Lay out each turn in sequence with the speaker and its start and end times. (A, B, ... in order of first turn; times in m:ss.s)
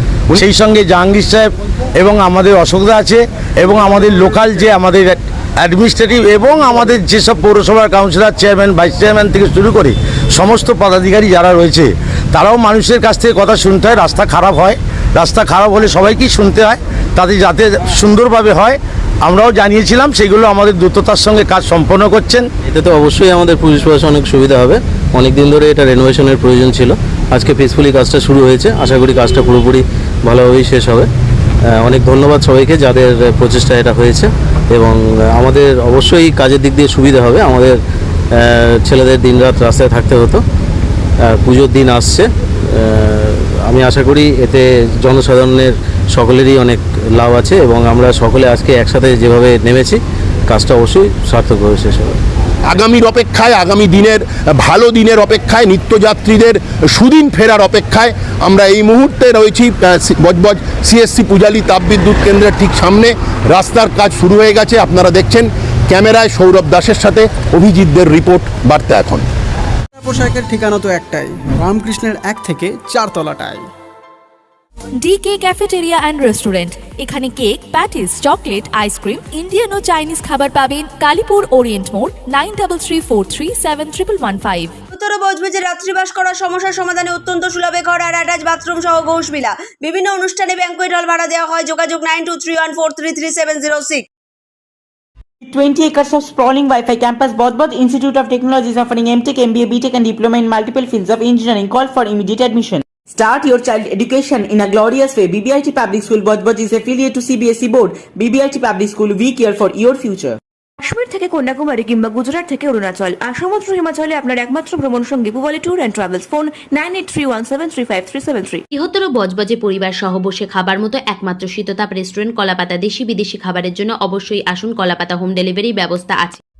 0:00.3-0:22.5 A
0:22.6-0:31.1 B
0:31.7-0:37.8 B
0:38.4-0:40.4 B
0:41.3-0:52.2 B
0:52.6-1:09.2 C
1:10.0-1:13.6 D
1:15.0-1:24.7 E
1:24.9-1:34.0 F
1:35.5-1:50.4 G
1:50.8-1:58.6 H
1:58.7-2:06.4 I